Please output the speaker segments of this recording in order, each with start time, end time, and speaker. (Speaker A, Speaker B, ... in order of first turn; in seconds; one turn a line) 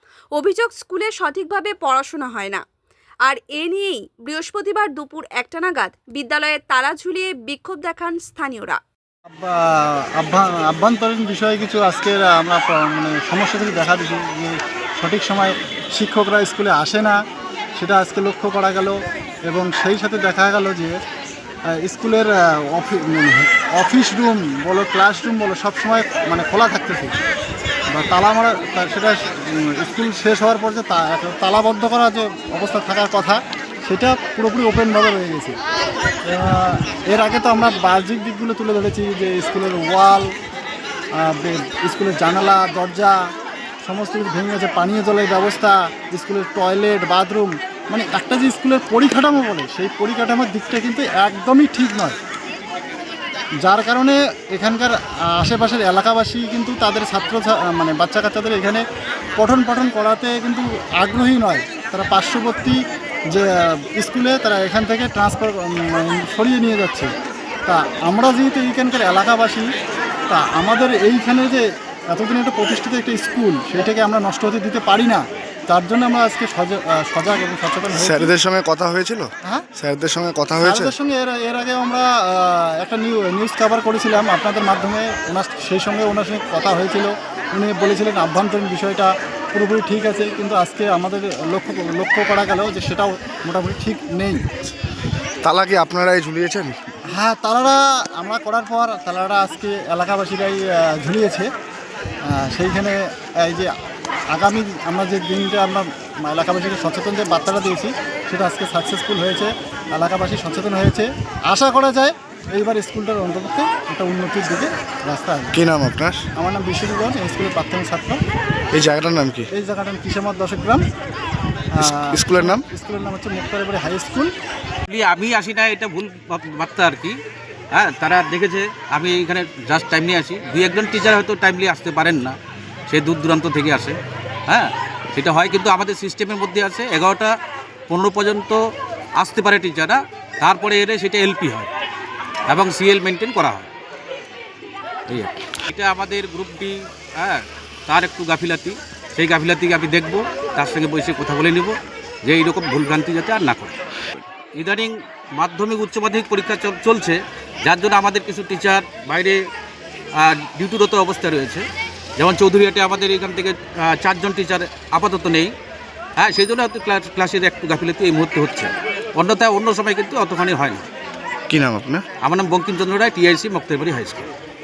Speaker A: 0.3-2.6
Speaker A: 3.2-8.8
Speaker B: 9.3-17.2
Speaker B: 17.8-19.0
Speaker B: 19.5-20.9
Speaker B: 21.7-27.1
Speaker B: 27.9-35.5
Speaker B: 36.3-40.3
Speaker B: 41.1-43.2
Speaker B: 43.8-52.2
Speaker B: 53.6-58.8
Speaker B: 59.4-67.1
Speaker B: 67.7-69.7
Speaker B: 70.3-78.3
Speaker C: 78.0-80.9
Speaker B: 80.6-94.4
Speaker C: 95.4-96.8
Speaker B: 97.1-101.5
Speaker B: 102.2-103.7
Speaker B: 104.3-115.5
Speaker C: 115.5-116.2
Speaker B: 116.3-118.2
Speaker C: 118.7-119.5
Speaker B: 119.5-120.8
Speaker B: 121.8-124.3
Speaker C: 121.8-122.6
Speaker D: 124.9-127.2
Speaker D: 127.7-132.3
Speaker D: 132.9-134.0
Speaker D: 134.5-137.3
Speaker D: 137.9-138.6
Speaker D: 139.2-141.7
Speaker D: 142.5-143.7
Speaker D: 145.1-159.4
Speaker D: 160.2-161.6
Speaker D: 162.2-165.5
Speaker D: 166.2-170.8
Speaker C: 171.5-172.0
Speaker D: 172.2-174.3